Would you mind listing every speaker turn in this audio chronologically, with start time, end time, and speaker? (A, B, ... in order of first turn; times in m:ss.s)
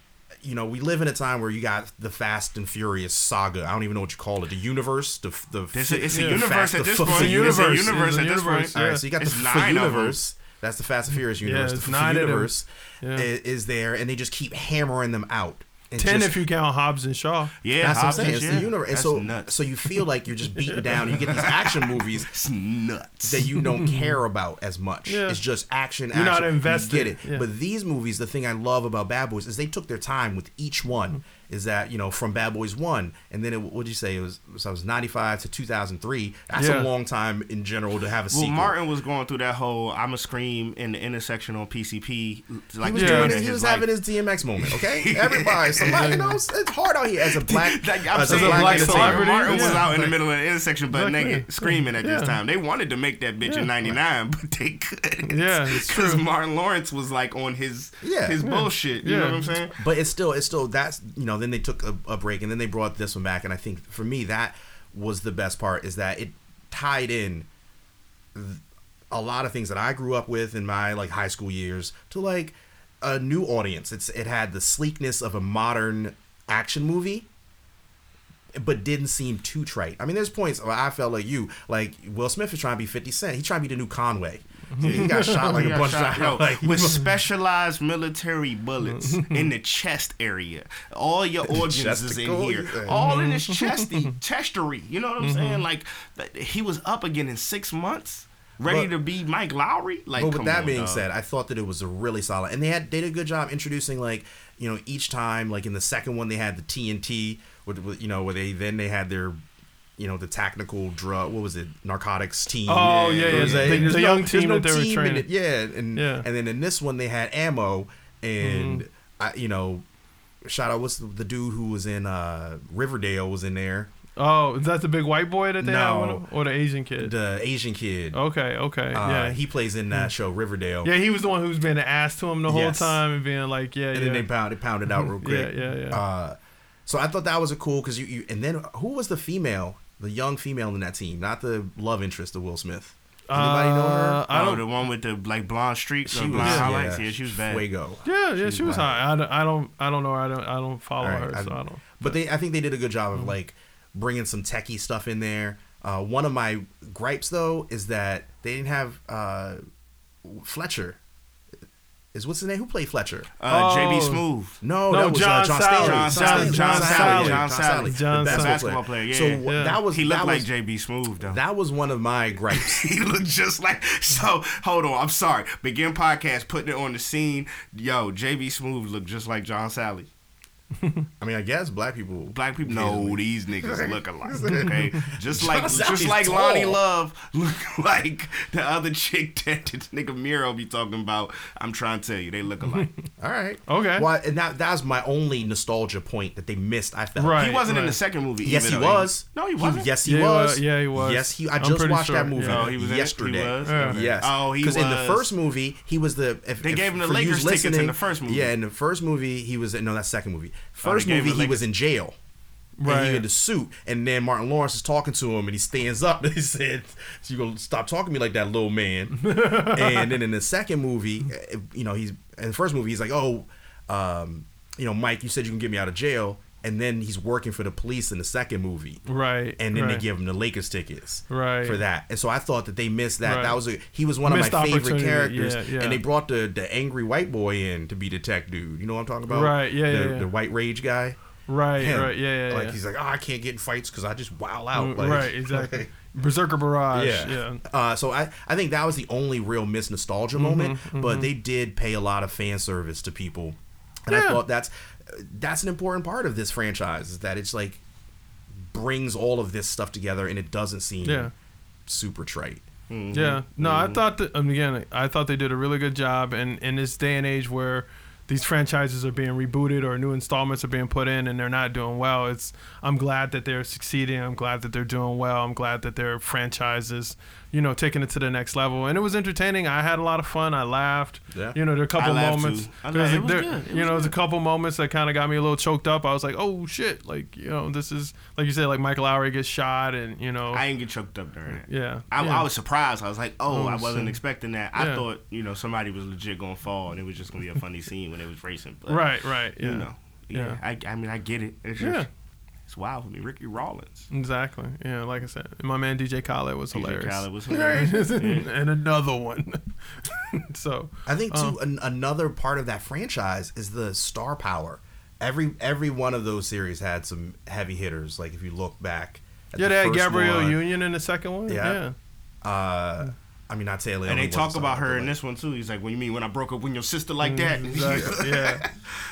0:00.4-0:07.9 A
0:05.7-0:10.2 B
0:06.1-0:06.4 C
0:07.0-0:09.0 C
0:08.7-0:16.4 A
0:11.4-0:13.3 C
0:16.0-0:18.6 C
0:17.6-0:20.0 B
0:17.8-0:22.3 A
0:20.7-0:21.0 C
0:21.2-0:23.5 B
0:23.2-0:38.7 A
0:23.6-0:24.1 C
0:25.1-0:25.4 C
0:26.1-0:27.4 C
0:36.5-0:36.9 C
0:38.3-0:43.9 B
0:42.8-0:49.9 A
0:43.0-0:43.4 C
0:44.6-0:46.1 B
0:45.9-0:46.4 C
0:47.2-0:59.8 B
0:48.2-0:50.1 C
0:50.9-0:52.3 C
0:55.3-0:56.2 C
0:58.0-0:58.4 A
0:58.4-0:59.5 C
0:59.8-1:07.5 A
1:08.3-1:17.3 A
1:18.6-1:27.1 A
1:24.7-1:25.8 C
1:24.8-1:41.0 B
1:28.8-1:29.5 C
1:31.5-1:33.1 A
1:32.9-1:34.2 C
1:35.2-1:35.6 C
1:38.6-1:38.9 A
1:40.1-1:49.4 A
1:50.0-1:59.8 A
1:52.7-1:55.3 C
1:52.8-1:53.9 B
1:55.9-1:56.3 C
1:58.4-1:58.8 C
2:00.4-2:03.9 A
2:04.2-2:07.1 C
2:05.6-2:06.2 A
2:07.0-2:08.2 A
2:08.1-2:09.4 C
2:08.9-2:10.9 A
2:10.8-2:14.3 C
2:12.5-2:13.0 A
2:13.9-2:24.2 A
2:14.9-2:16.0 C
2:23.3-2:24.6 C
2:24.3-2:27.6 B
2:26.1-2:29.0 A
2:26.4-2:26.7 C
2:28.0-2:32.1 C
2:31.0-2:39.6 A
2:40.2-2:41.0 A
2:42.1-2:43.3 A
2:43.4-2:44.6 B
2:43.5-2:44.2 C
2:44.6-2:50.5 A
2:44.9-2:48.6 C
2:45.8-2:51.4 B
2:49.4-2:49.8 C
2:51.2-2:52.8 A
2:52.5-3:00.1 B
3:01.2-3:06.8 A
3:02.3-3:12.9 B
3:13.2-3:17.4 A
3:13.7-3:14.1 C
3:17.2-3:18.0 C
3:17.4-3:19.9 B
3:18.4-3:32.2 A
3:20.0-3:22.7 C
3:22.4-3:25.3 B
3:23.6-3:24.0 C
3:26.6-3:28.5 B
3:30.8-3:31.6 B
3:32.8-3:33.2 C
3:32.8-3:49.0 A
3:39.2-3:40.2 C
3:49.1-3:50.0 C
3:49.6-4:01.2 A
3:51.3-3:51.8 C
3:53.2-3:53.6 C
3:54.2-3:56.0 C
3:59.3-4:00.3 C
4:01.5-4:02.8 C
4:01.8-4:05.9 A
4:04.7-4:07.6 C
4:06.9-4:17.8 A
4:10.3-4:11.3 C
4:14.1-4:14.4 C
4:18.5-4:21.3 A
4:21.0-4:21.3 C
4:21.9-4:22.7 A
4:22.9-4:24.0 B
4:23.1-4:50.6 C
4:41.3-4:41.6 A
4:41.9-4:44.2 B
4:50.5-5:02.1 B
4:51.7-4:52.4 C
4:53.5-4:54.2 C
4:54.8-4:55.0 C
4:58.9-5:00.6 C
5:01.8-5:02.1 C
5:02.7-5:04.1 B
5:04.1-5:11.6 C
5:06.7-5:08.5 B
5:11.0-5:20.6 A
5:19.6-5:21.9 C
5:21.5-5:21.8 A
5:22.4-5:25.1 A
5:24.0-5:28.7 B
5:27.2-5:28.6 C